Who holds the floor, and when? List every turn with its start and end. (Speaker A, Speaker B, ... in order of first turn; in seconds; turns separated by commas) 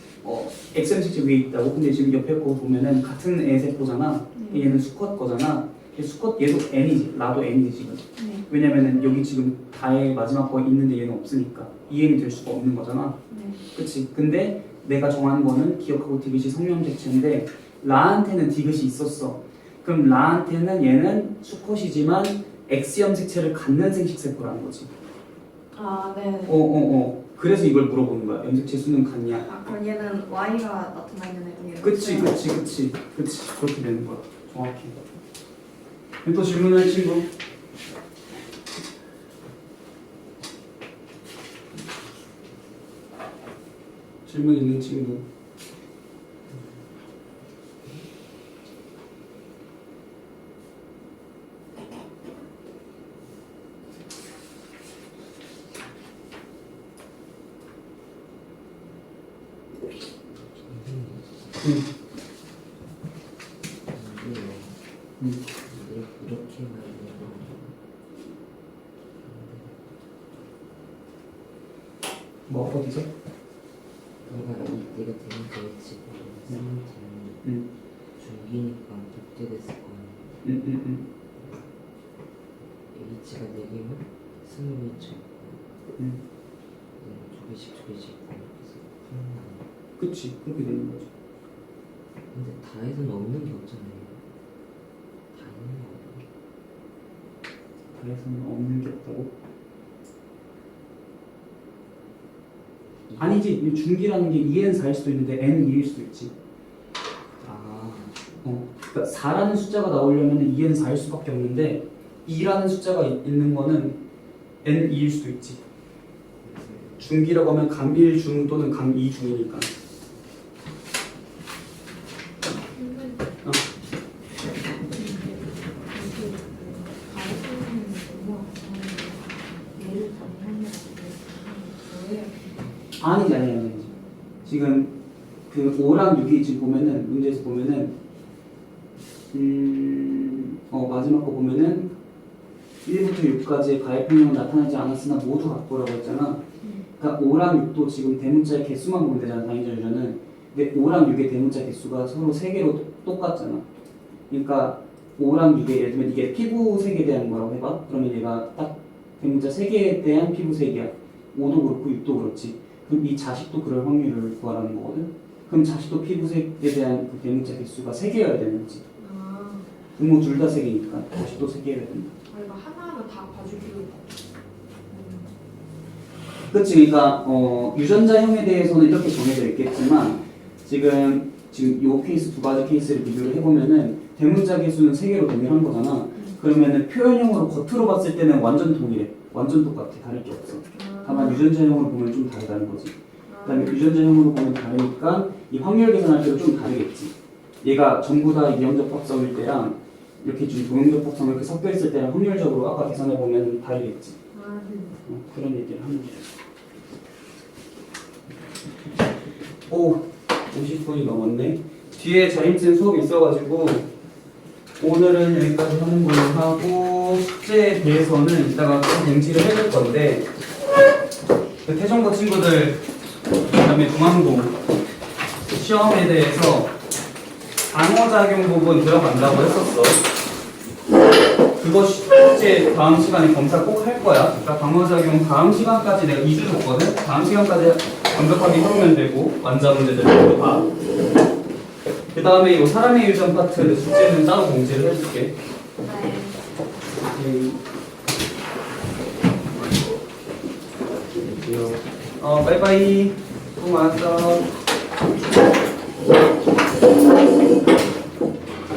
Speaker A: 0.2-13.2, Speaker B: 4.3-4.7, Speaker B: 8.2-8.5, Speaker B: 13.3-13.6, Speaker A: 13.7-24.9, Speaker B: 25.7-26.6, Speaker A: 26.5-29.5, Speaker B: 29.4-32.4, Speaker A: 31.8-35.0, Speaker A: 36.2-37.3, Speaker A: 44.3-45.2, Speaker C: 60.6-61.6, Speaker C: 63.9-64.8, Speaker C: 65.5-67.8, Speaker C: 69.2-70.0, Speaker A: 72.5-73.1, Speaker C: 74.2-77.4, Speaker A: 76.5-76.8, Speaker A: 77.4-77.7, Speaker C: 78.2-80.5, Speaker A: 80.4-81.1, Speaker C: 81.4-81.7, Speaker C: 82.9-85.7, Speaker A: 86.0-86.2, Speaker C: 87.0-89.7, Speaker A: 90.0-91.1, Speaker C: 92.3-94.2, Speaker C: 95.3-96.2, Speaker A: 97.9-99.3, Speaker C: 103.1-103.4, Speaker A: 103.2-106.3, Speaker C: 107.4-108.2, Speaker A: 108.4-114.0, Speaker A: 114.6-115.6, Speaker C: 116.4-117.0, Speaker A: 117.0-119.7, Speaker B: 122.7-123.2, Speaker B: 124.9-125.4, Speaker B: 125.9-129.2, Speaker D: 126.4-128.8, Speaker B: 129.8-132.3, Speaker D: 130.8-131.8, Speaker A: 133.0-135.0, Speaker A: 135.5-137.9, Speaker A: 139.3-141.9, Speaker A: 142.8-146.4, Speaker B: 146.6-146.9, Speaker A: 147.0-153.7, Speaker A: 154.3-168.8, Speaker B: 169.0-169.7, Speaker A: 169.9-172.1, Speaker D: 172.3-174.0, Speaker B: 174.9-175.2, Speaker A: 176.5-204.2, Speaker B: 190.7-191.4, Speaker B: 193.3-193.9, Speaker B: 204.3-205.0, Speaker A: 205.1-206.3, Speaker A: 209.7-213.9, Speaker A: 214.8-220.3, Speaker A: 221.7-222.8, Speaker A: 223.5-224.6, Speaker A: 225.5-226.7, Speaker A: 227.7-230.0, Speaker A: 231.6-240.7, Speaker A: 242.1-245.3, Speaker B: 245.8-246.4, Speaker A: 247.1-247.6, Speaker A: 251.3-254.5